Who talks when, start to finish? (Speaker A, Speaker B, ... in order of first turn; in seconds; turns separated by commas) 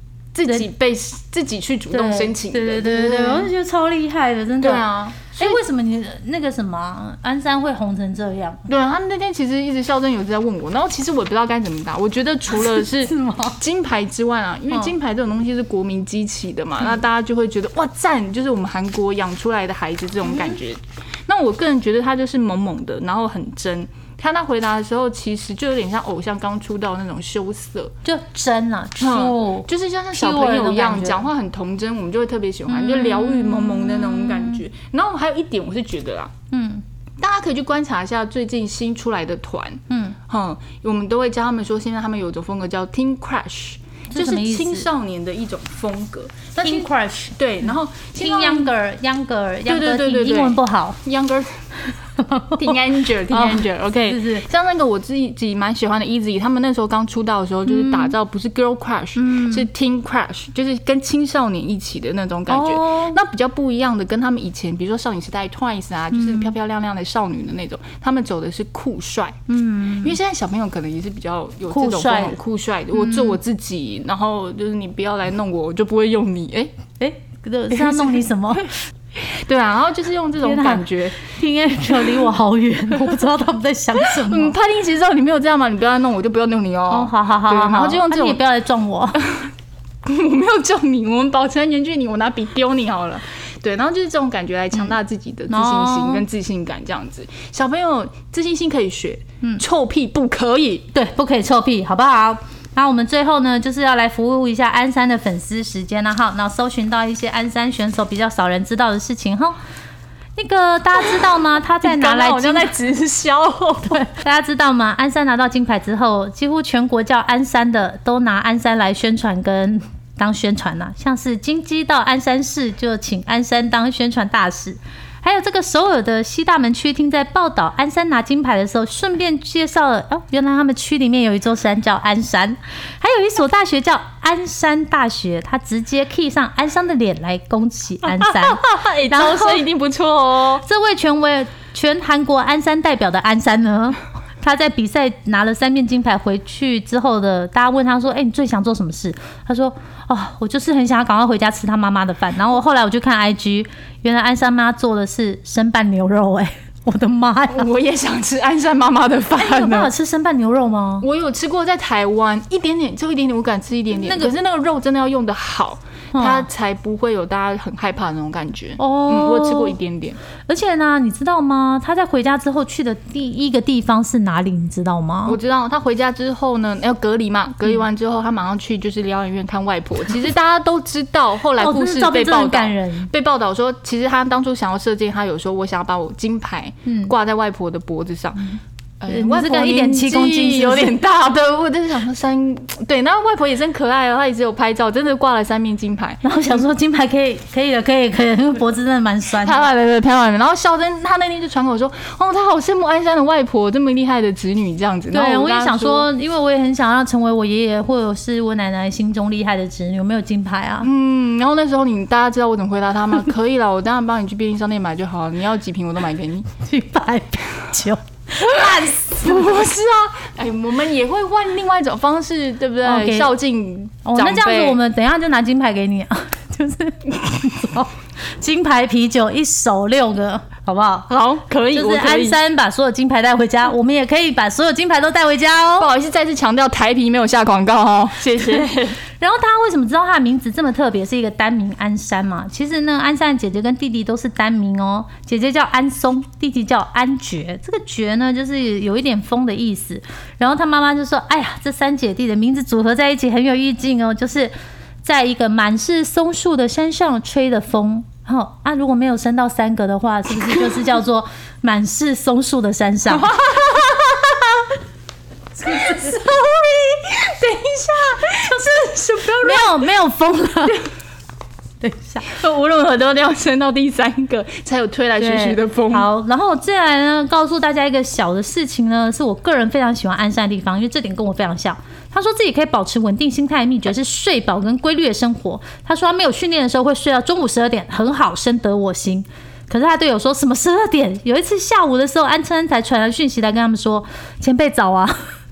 Speaker A: 0.3-3.5, Speaker B: 1.9-8.6, Speaker A: 4.6-5.6, Speaker A: 8.7-27.9, Speaker B: 12.5-13.6, Speaker B: 20.3-20.6, Speaker B: 28.0-31.2, Speaker A: 29.0-36.3, Speaker B: 32.7-34.6, Speaker B: 36.5-36.8, Speaker A: 37.2-48.7, Speaker B: 39.9-40.2, Speaker B: 44.1-44.9, Speaker B: 46.6-51.0, Speaker A: 49.7-51.6, Speaker B: 52.2-54.5, Speaker A: 52.6-69.4, Speaker B: 57.7-58.1, Speaker B: 59.1-59.7, Speaker B: 62.5-63.2, Speaker B: 66.1-66.5, Speaker B: 69.5-70.1, Speaker A: 70.0-76.7, Speaker B: 71.7-72.4, Speaker B: 72.9-73.4, Speaker B: 77.0-78.7, Speaker A: 77.7-78.2, Speaker A: 79.1-81.2, Speaker B: 80.4-84.5, Speaker A: 84.0-88.4, Speaker B: 86.9-89.2, Speaker A: 90.0-100.9, Speaker B: 95.5-96.2, Speaker B: 100.9-109.6, Speaker B: 110.4-112.7, Speaker A: 111.0-114.0, Speaker B: 113.9-139.6, Speaker A: 138.0-140.6, Speaker B: 140.6-157.7, Speaker A: 157.5-159.9, Speaker B: 159.4-161.1, Speaker A: 161.0-170.2, Speaker B: 164.0-164.3, Speaker B: 166.1-166.5, Speaker B: 168.8-169.8, Speaker B: 170.5-175.4, Speaker A: 175.2-188.4, Speaker B: 181.6-183.1, Speaker B: 186.8-187.1, Speaker A: 189.0-196.6, Speaker B: 189.1-190.9, Speaker B: 196.2-199.6, Speaker A: 199.4-206.1, Speaker B: 205.1-210.9, Speaker A: 210.8-216.5, Speaker B: 216.6-219.5, Speaker A: 218.4-224.8, Speaker B: 222.8-223.3, Speaker B: 224.0-231.1, Speaker A: 231.1-232.4, Speaker B: 231.7-235.9, Speaker A: 235.8-239.0, Speaker B: 239.2-254.5, Speaker B: 255.0-263.3, Speaker A: 260.4-260.8, Speaker A: 263.1-264.7, Speaker A: 265.6-269.8, Speaker B: 269.4-270.8, Speaker B: 271.8-272.3, Speaker A: 272.2-276.1, Speaker B: 275.2-295.2